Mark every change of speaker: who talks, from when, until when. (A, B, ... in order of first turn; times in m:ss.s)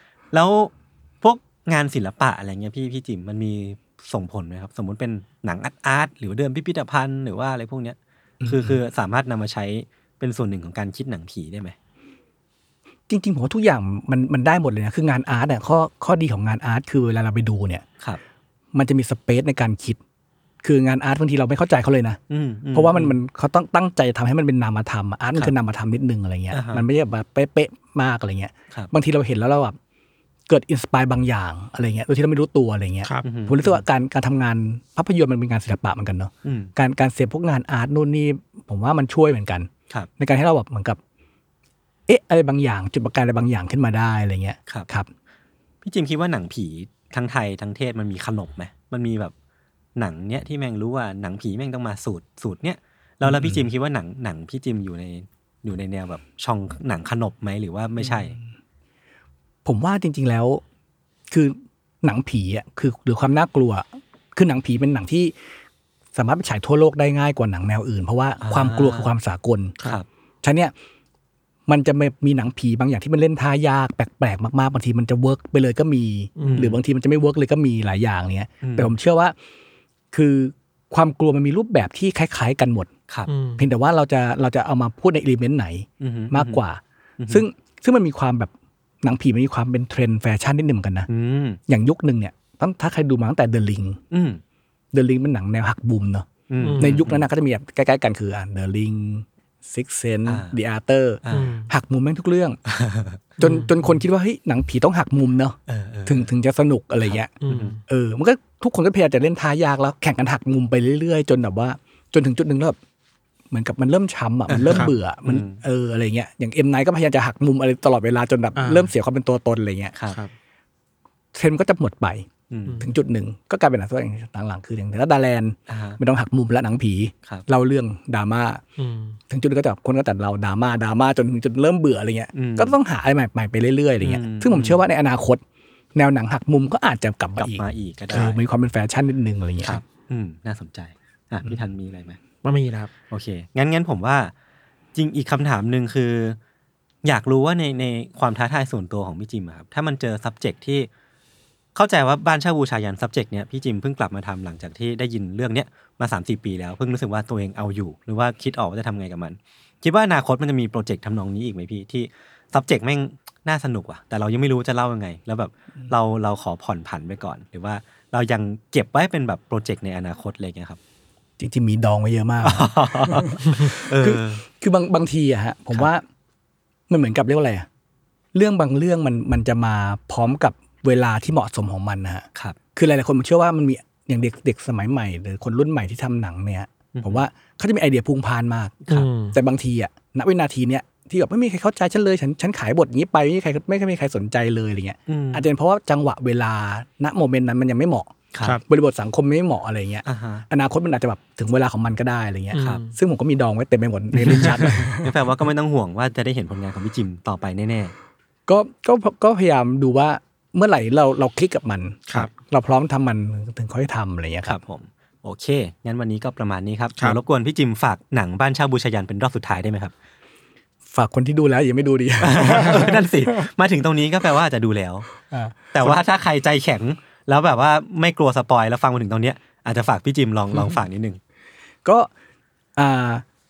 0:00.3-0:11.8 A
0:08.4-0:08.8 B
0:13.1-0:17.8 B
0:18.7-0:20.0 B
0:20.6-0:22.2 B
0:22.3-0:23.2 A
0:22.7-0:29.8 B
0:26.5-0:26.8 A
0:30.5-0:41.0 B
0:33.2-0:33.8 A
0:36.4-0:36.7 A
0:42.1-0:45.1 B
0:45.8-0:49.3 A
0:50.0-0:58.4 A
0:53.2-0:53.6 B
0:58.0-0:58.4 B
0:59.6-1:00.6 B
1:01.3-1:05.3 B
1:06.1-1:09.8 B
1:08.4-1:09.1 A
1:10.4-1:10.7 B
1:11.7-1:19.3 B
1:16.4-1:16.7 C
1:16.4-1:16.8 A
1:18.6-1:18.9 A
1:20.1-1:22.9 B
1:23.3-1:23.7 C
1:23.6-1:28.5 B
1:26.0-1:26.6 A
1:27.2-1:27.4 A
1:29.0-1:31.1 B
1:31.1-1:31.6 A
1:31.7-1:34.0 B
1:34.1-1:34.4 A
1:34.9-1:42.6 B
1:36.5-1:37.2 A
1:36.6-1:37.0 C
1:40.2-1:40.6 A
1:41.2-1:41.5 A
1:41.3-1:41.7 C
1:42.6-1:43.4 A
1:43.4-1:47.3 B
1:43.4-1:43.7 C
1:45.7-1:46.3 A
1:47.1-1:47.8 A
1:47.4-1:47.8 C
1:47.9-1:52.8 B
1:53.5-1:59.9 B
1:54.5-1:55.6 A
1:58.6-1:58.9 C
2:01.3-2:02.3 B
2:02.5-2:02.8 A
2:02.8-2:08.6 B
2:05.7-2:06.0 A
2:08.8-2:09.2 C
2:09.3-2:15.4 B
2:12.3-2:12.8 A
2:14.0-2:14.8 A
2:15.9-2:19.8 B
2:17.4-2:18.4 A
2:19.6-2:22.2 A
2:22.4-2:22.9 C
2:23.1-2:24.3 A
2:24.9-2:26.4 A
2:27.0-2:30.9 A
2:31.7-2:50.8 A
2:51.4-2:56.0 B
2:52.4-2:54.4 A
2:56.9-2:57.7 B
2:58.3-3:08.8 B
3:07.0-3:07.2 A
3:08.9-3:09.4 C
3:09.3-3:18.1 B
3:15.1-3:15.5 A
3:18.3-3:18.6 A
3:18.6-3:25.1 B
3:20.0-3:20.4 A
3:22.5-3:23.0 C
3:22.6-3:22.8 A
3:24.2-3:27.9 A
3:28.5-3:34.6 B
3:34.4-3:39.9 A
3:40.9-3:43.5 B
3:42.2-3:45.1 A
3:45.3-3:46.0 B
3:45.7-3:51.2 A
3:52.8-3:53.2 B